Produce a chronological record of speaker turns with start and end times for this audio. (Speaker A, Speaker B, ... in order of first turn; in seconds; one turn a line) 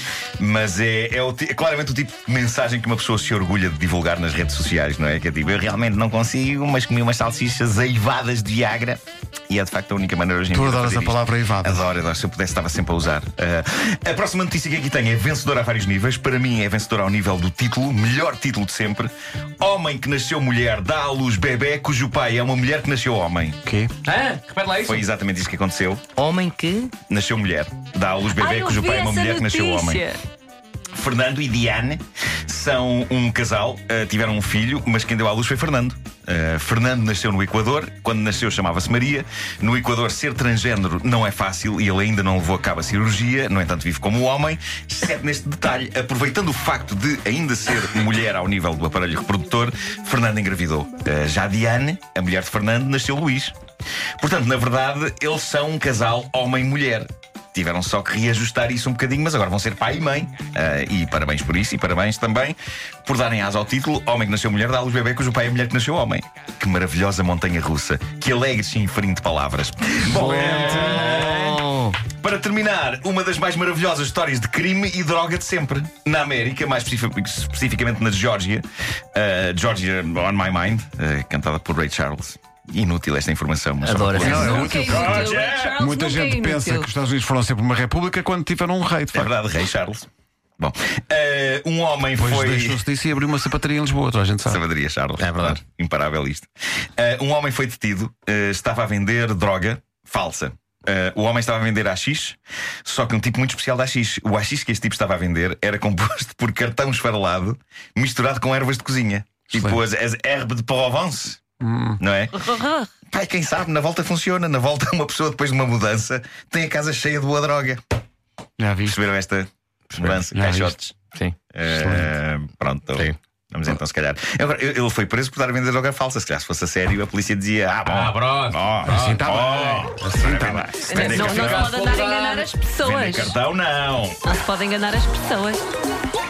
Speaker A: 0.4-23.6
Speaker B: 10.5-11.8
Speaker B: 23.7-23.9
Speaker C: 24.0-24.9
Speaker A: 24.8-26.0
Speaker D: 26.2-26.9
Speaker A: 27.1-30.0
Speaker E: 28.3-30.2
Speaker A: 30.9-53.6
Speaker A: 54.2-85.8
Speaker D: 70.1-72.0
Speaker D: 83.8-84.8
Speaker B: 84.2-89.3
Speaker E: 84.2-86.9
Speaker A: 89.1-90.1
Speaker A: 90.6-92.8
Speaker B: 92.2-94.6
Speaker A: 94.4-111.4
Speaker B: 95.2-95.6
Speaker B: 109.5-109.8
Speaker B: 111.6-112.0
Speaker A: 112.0-117.8
Speaker B: 118.6-119.0
Speaker A: 118.8-120.9
Speaker B: 120.3-120.8
Speaker A: 121.5-131.7
Speaker C: 127.8-129.2
Speaker B: 128.8-131.0
Speaker E: 130.8-133.4
Speaker C: 131.0-132.5
Speaker A: 132.8-134.3
Speaker E: 134.2-135.6